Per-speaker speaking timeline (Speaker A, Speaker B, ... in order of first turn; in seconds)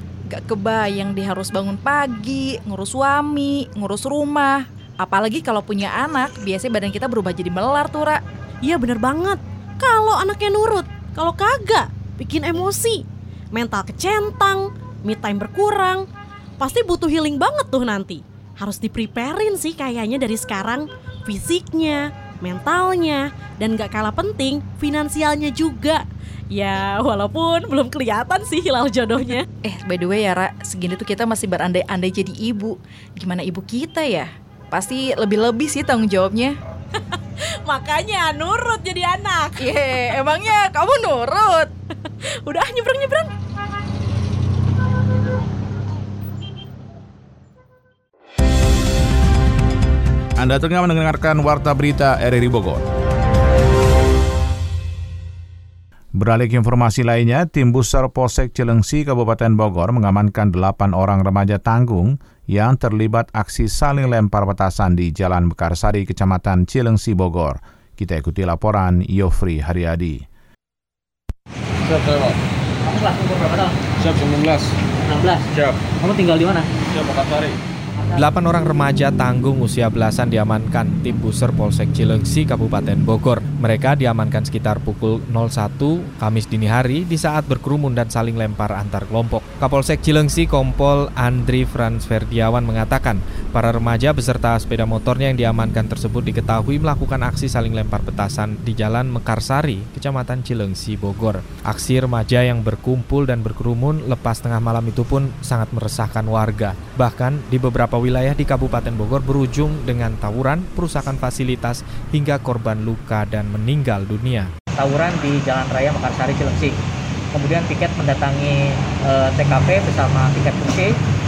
Speaker A: 0.3-8.2, 29.6-36.6, 39.6-41.7
Speaker B: 8.6-16.0, 16.6-29.4, 37.7-39.7, 42.4-43.3
Speaker C: 50.4-52.8, 56.1-70.2
Speaker D: 72.8-73.8, 75.0-76.7, 114.8-116.8, 117.3-120.9
Speaker E: 78.1-114.5